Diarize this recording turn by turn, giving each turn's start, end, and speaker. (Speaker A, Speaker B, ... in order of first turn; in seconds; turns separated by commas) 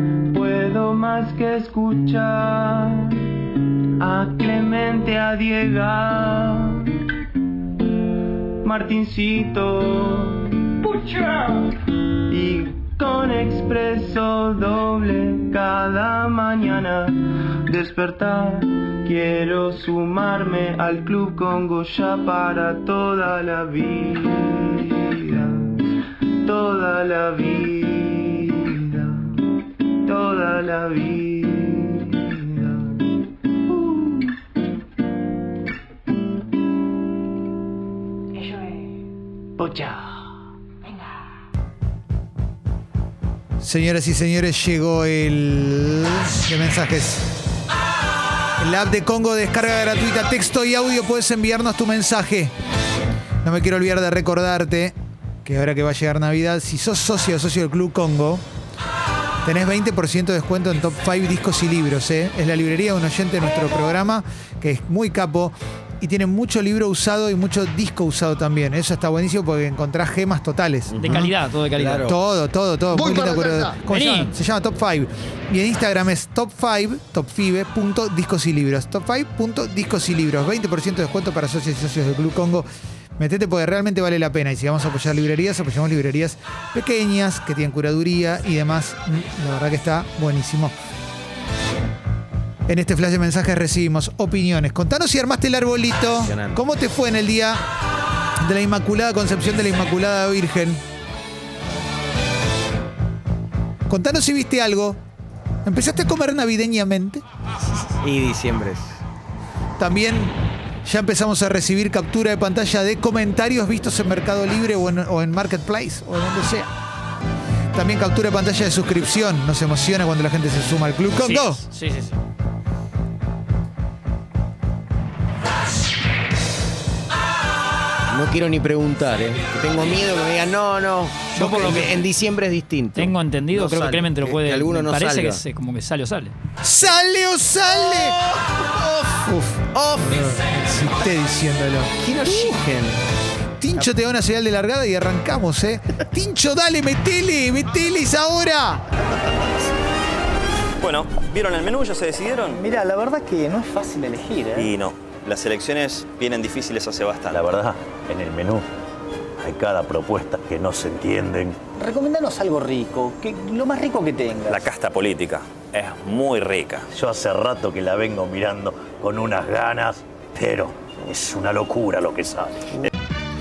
Speaker A: 0.3-3.2, Speaker A: 4.0-6.8, Speaker A: 8.6-11.6, Speaker A: 12.3-25.8, Speaker A: 26.4-29.2, Speaker A: 30.1-32.9, Speaker A: 39.6-40.0, Speaker B: 43.6-47.4, Speaker B: 48.6-52.5, Speaker B: 53.4-58.4, Speaker B: 59.4-71.3, Speaker C: 70.9-71.2, Speaker D: 71.0-72.0, Speaker C: 71.8-72.2, Speaker B: 72.0-82.7, Speaker D: 73.9-74.3, Speaker B: 83.2-90.7, Speaker B: 92.7-97.6, Speaker C: 96.1-96.6, Speaker B: 98.4-100.8, Speaker B: 103.9-105.0, Speaker B: 105.6-107.2, Speaker C: 108.0-109.0, Speaker B: 109.8-116.7, Speaker B: 117.7-121.6, Speaker D: 121.2-122.2, Speaker C: 128.1-135.4, Speaker D: 131.3-132.0, Speaker D: 132.9-136.3, Speaker B: 136.6-138.2, Speaker C: 137.7-140.3, Speaker B: 139.3-139.5, Speaker B: 140.1-141.9, Speaker C: 142.0-143.0, Speaker B: 143.6-148.8, Speaker E: 150.8-152.6, Speaker F: 152.5-154.7, Speaker E: 154.8-157.3, Speaker G: 157.2-158.6, Speaker G: 159.4-161.6, Speaker F: 161.8-164.7, Speaker G: 164.7-172.7